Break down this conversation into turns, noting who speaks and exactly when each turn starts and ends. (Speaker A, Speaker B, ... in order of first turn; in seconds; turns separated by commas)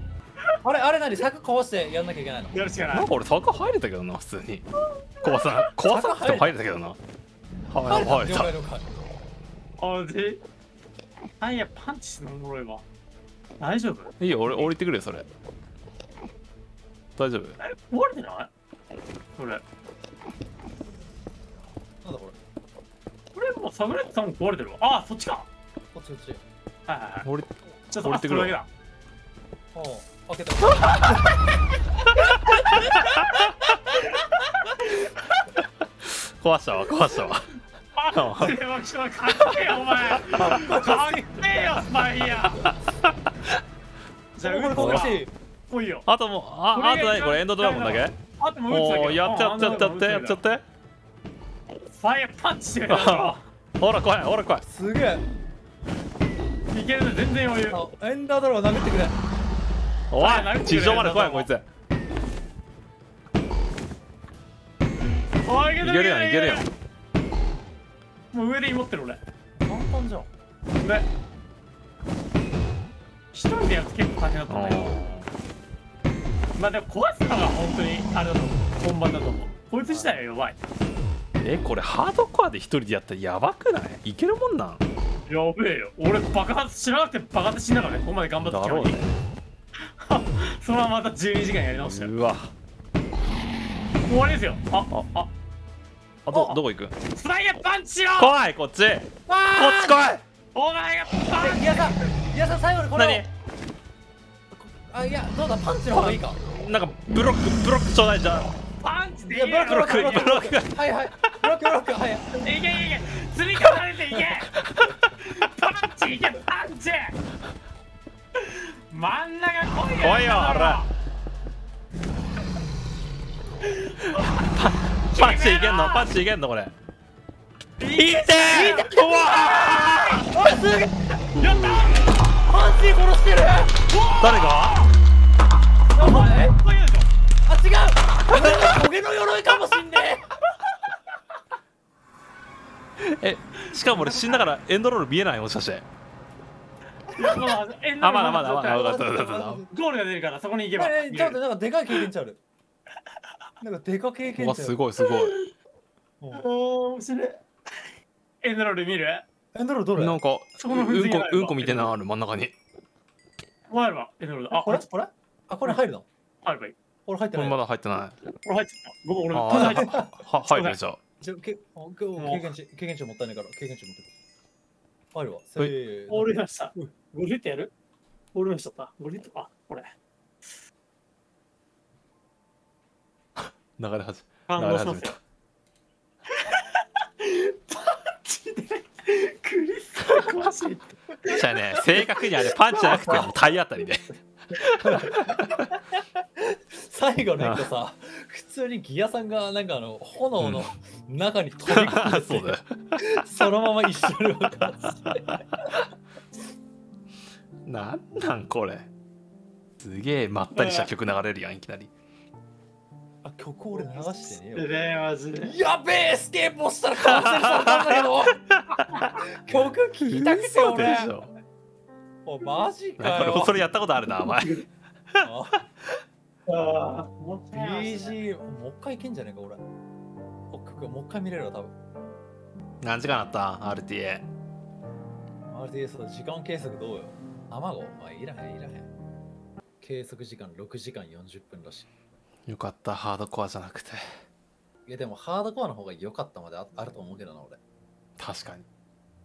Speaker A: 0.6-2.6, Speaker B: 2.5-3.1, Speaker C: 2.9-4.7, Speaker C: 5.2-7.0, Speaker A: 5.8-6.6, Speaker C: 7.7-8.5, Speaker A: 7.8-8.9, Speaker B: 9.8-10.4, Speaker B: 11.4-12.8, Speaker B: 13.6-14.7, Speaker C: 14.2-15.3, Speaker C: 17.2-17.6, Speaker B: 17.6-18.5, Speaker B: 19.4-19.6, Speaker A: 22.0-22.4, Speaker B: 23.3-25.5, Speaker A: 25.9-26.4, Speaker B: 26.9-27.3, Speaker C: 27.2-28.6, Speaker B: 27.9-28.7, Speaker A: 29.7-31.3, Speaker C: 32.5-33.4, Speaker A: 32.7-33.1, Speaker B: 34.0-35.2, Speaker C: 36.0-37.5, Speaker B: 38.0-42.7, Speaker C: 38.1-38.6, Speaker A: 40.3-41.5, Speaker C: 42.6-43.1, Speaker B: 44.4-46.1, Speaker A: 44.4-45.3, Speaker C: 44.8-45.2, Speaker C: 46.1-48.2, Speaker B: 46.7-50.4, Speaker C: 48.7-50.6, Speaker B: 51.9-53.4, Speaker C: 52.9-54.6, Speaker A: 54.7-55.3, Speaker B: 56.7-57.8, Speaker A: 57.7-59.2, Speaker C: 60.1-61.6, Speaker B: 60.2-61.5, Speaker B: 65.4-66.7, Speaker C: 65.8-66.7, Speaker B: 68.3-69.2, Speaker A: 69.7-70.3, Speaker B: 70.8-71.1, Speaker B: 73.3-75.0, Speaker C: 74.5-75.3, Speaker B: 76.6-80.6, Speaker A: 79.9-80.1, Speaker C: 81.4-84.8, Speaker B: 85.3-89.0, Speaker C: 88.4-89.2, Speaker B: 90.0-92.1, Speaker C: 91.8-92.5, Speaker B: 94.0-95.3, Speaker C: 96.3-97.0, Speaker B: 96.3-96.6, Speaker B: 97.1-98.4, Speaker C: 98.2-100.2, Speaker A: 99.3-100.1, Speaker B: 100.5-102.0, Speaker A: 101.4-103.3, Speaker C: 102.9-103.3, Speaker A: 104.5-106.4, Speaker C: 105.9-108.5, Speaker B: 108.8-110.4, Speaker A: 109.2-112.5, Speaker C: 109.7-111.5, Speaker B: 112.4-114.5, Speaker C: 114.7-115.1, Speaker B: 115.1-117.2, Speaker B: 118.4-120.9, Speaker C: 120.0-120.8, Speaker B: 123.6-124.4, Speaker C: 124.1-126.7, Speaker B: 125.1-126.1, Speaker B: 127.8-129.3, Speaker C: 128.0-130.3, Speaker A: 128.5-129.2, Speaker B: 129.9-130.2, Speaker A: 130.3-131.2, Speaker B: 131.4-132.2, Speaker A: 132.4-133.8, Speaker B: 133.9-134.8, Speaker C: 134.2-134.9, Speaker B: 135.9-137.1, Speaker A: 136.0-136.6, Speaker A: 137.5-140.3, Speaker C: 138.3-138.8, Speaker B: 140.6-140.9, Speaker C: 143.0-145.8, Speaker B: 143.7-144.4, Speaker B: 147.1-149.0, Speaker C: 148.0-149.6, Speaker A: 148.5-149.7, Speaker B: 149.7-151.4, Speaker A: 150.8-152.4, Speaker A: 153.6-154.8, Speaker C: 154.4-155.4, Speaker B: 155.1-155.5, Speaker B: 156.3-157.4, Speaker B: 158.4-159.2, Speaker A: 159.5-160.2, Speaker C: 160.0-162.5, Speaker B: 160.6-162.0, Speaker B: 163.7-164.9, Speaker A: 164.5-166.1, Speaker B: 166.4-166.8, Speaker A: 167.1-167.6, Speaker C: 167.3-168.2, Speaker B: 168.4-170.8, Speaker C: 169.3-171.0, Speaker A: 169.5-170.2, Speaker A: 171.2-174.1, Speaker B: 172.2-172.5, Speaker A: 175.1-176.3, Speaker B: 176.1-177.7, Speaker B: 178.3-179.9, Speaker C: 183.4-185.2, Speaker B: 184.5-185.2, Speaker B: 186.3-191.0, Speaker C: 191.3-195.6, Speaker A: 191.3-192.2, Speaker A: 192.8-193.3, Speaker B: 192.8-193.3, Speaker A: 194.8-205.2, Speaker C: 197.4-197.7, Speaker C: 200.4-200.7, Speaker C: 201.7-203.0, Speaker C: 207.7-208.9, Speaker C: 209.8-211.9, Speaker B: 210.5-210.9, Speaker A: 213.2-214.7, Speaker B: 213.7-215.6, Speaker A: 215.4-218.4, Speaker C: 217.0-219.0, Speaker A: 219.0-221.2, Speaker C: 220.1-221.3, Speaker A: 222.2-223.6, Speaker C: 223.0-225.9, Speaker A: 225.2-225.6, Speaker B: 226.5-228.2, Speaker A: 227.5-229.6, Speaker A: 230.5-231.8, Speaker C: 232.8-234.2, Speaker A: 235.5-238.9, Speaker A: 239.8-241.9, Speaker C: 242.5-244.0, Speaker A: 244.9-247.6, Speaker C: 248.2-248.7